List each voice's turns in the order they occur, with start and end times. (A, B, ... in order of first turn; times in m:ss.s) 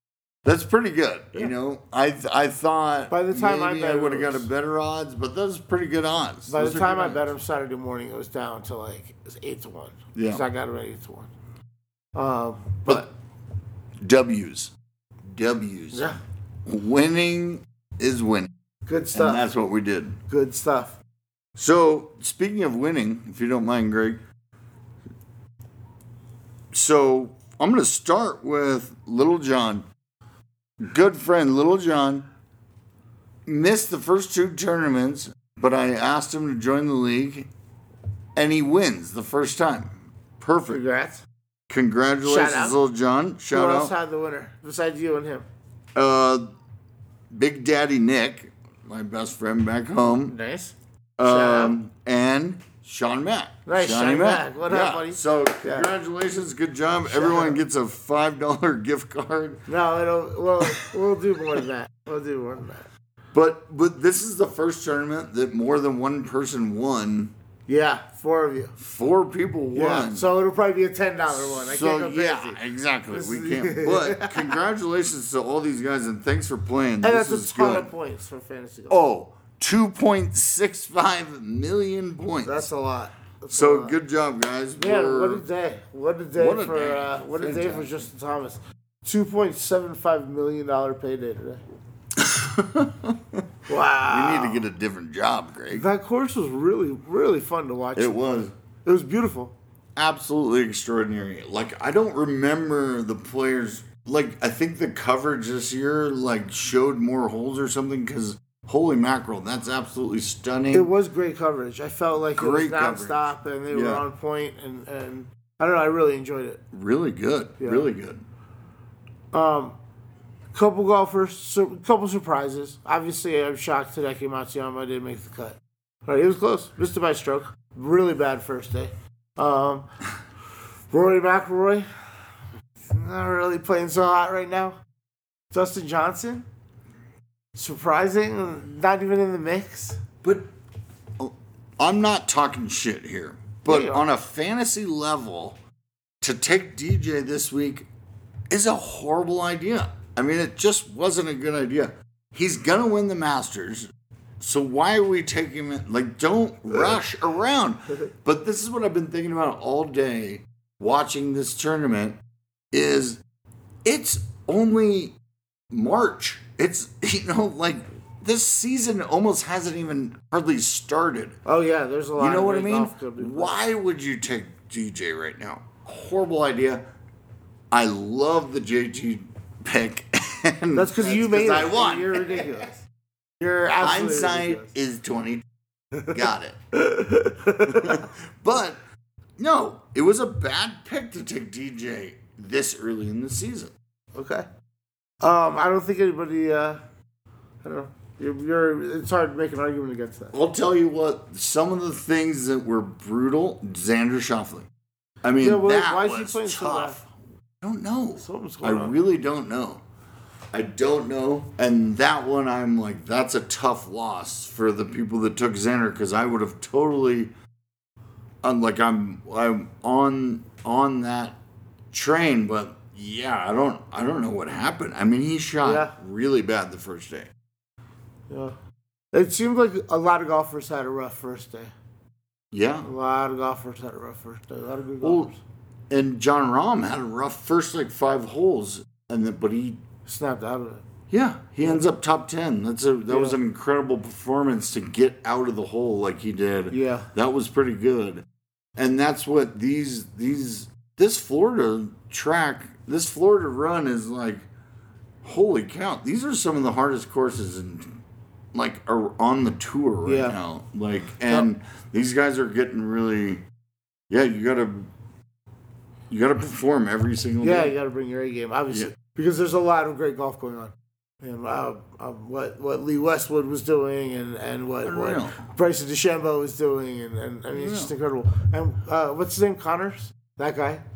0:00.4-0:07.3 A
0:03.1-0:04.5 B
0:06.5-0:11.3 B
0:10.1-0:10.4 A
0:12.1-0:13.1 B
0:14.0-0:14.7 A
0:15.3-0:18.5 A
0:15.9-0:16.2 B
0:18.8-0:19.4 B
0:19.1-0:20.2 A
0:20.3-0:21.0 B
0:21.6-0:24.2 A
0:26.7-0:29.8 A
0:30.8-0:32.3 A
0:33.5-0:37.5 A
0:38.4-0:40.8 A
0:40.7-0:41.2 B
0:41.7-0:43.9 A
0:42.2-0:42.8 B
0:43.5-0:45.5 B
0:46.0-0:46.5 A
0:47.3-0:50.3 A
0:50.1-0:51.7 B
0:51.2-0:59.6 A
0:53.6-0:55.9 B
0:57.1-0:57.6 B
0:59.7-1:02.8 B
1:03.3-1:07.3 A
1:07.6-1:08.7 B
1:08.8-1:10.2 A
1:09.7-1:14.6 B
1:11.3-1:17.9 A
1:17.0-1:19.0 B
1:18.9-1:22.7 A
1:22.4-1:24.0 B
1:23.5-1:25.4 A
1:24.8-1:31.6 B
1:26.4-1:27.9 A
1:32.2-1:33.4 A
1:33.7-1:34.7 B
1:34.0-1:35.8 A
1:35.7-1:38.2 B
1:37.9-1:38.5 A
1:38.8-1:39.5 B
1:40.0-1:50.9 A
1:50.7-1:56.6 B
1:52.3-1:54.0 A
1:56.7-1:58.2 A
1:57.6-1:57.9 B
1:59.3-1:59.8 B
2:00.5-2:09.8 B
2:10.9-2:11.8 B
2:12.9-2:14.8 B
2:15.5-2:16.4 B
2:17.5-2:20.0 B
2:21.2-2:25.6 A
2:23.7-2:24.0 B
2:26.2-2:27.9 A
2:28.5-2:42.2 A
2:42.7-2:43.2 A
2:43.8-2:45.2 A
2:45.7-2:51.4 A
2:51.4-2:53.6 B
2:52.2-2:56.8 A
2:57.7-3:02.5 A
3:00.7-3:02.8 B
3:03.4-3:05.4 A
3:03.7-3:04.7 B
3:06.1-3:06.6 A
3:06.8-3:08.0 B
3:07.6-3:08.8 A
3:09.4-3:13.7 A
3:14.1-3:14.5 B
3:15.2-3:16.8 B
3:17.6-3:20.3 B
3:20.3-3:24.7 A
3:25.2-3:27.1 A
3:25.4-3:27.0 B
3:27.6-3:29.8 A
3:28.2-3:29.0 B
3:30.5-3:37.3 A
3:38.4-3:41.4 A
3:41.9-3:47.3 A
3:45.6-3:45.9 B
3:48.3-3:48.6 B
3:49.1-3:51.7 B
3:52.5-3:52.9 A
3:52.8-3:55.4 B
3:55.0-3:55.3 A
3:55.9-3:59.8 A
4:00.0-4:00.8 B
4:01.1-4:08.2 A
4:01.6-4:01.9 B
4:03.1-4:03.4 B
4:06.7-4:07.1 B
4:08.8-4:14.5 A
4:15.2-4:18.0 A
4:18.5-4:23.4 A
4:20.0-4:20.4 B
4:21.2-4:21.5 B
4:24.1-4:24.9 A
4:26.1-4:27.7 A
4:27.4-4:40.8 B
4:34.8-4:35.4 A
4:37.5-4:37.9 A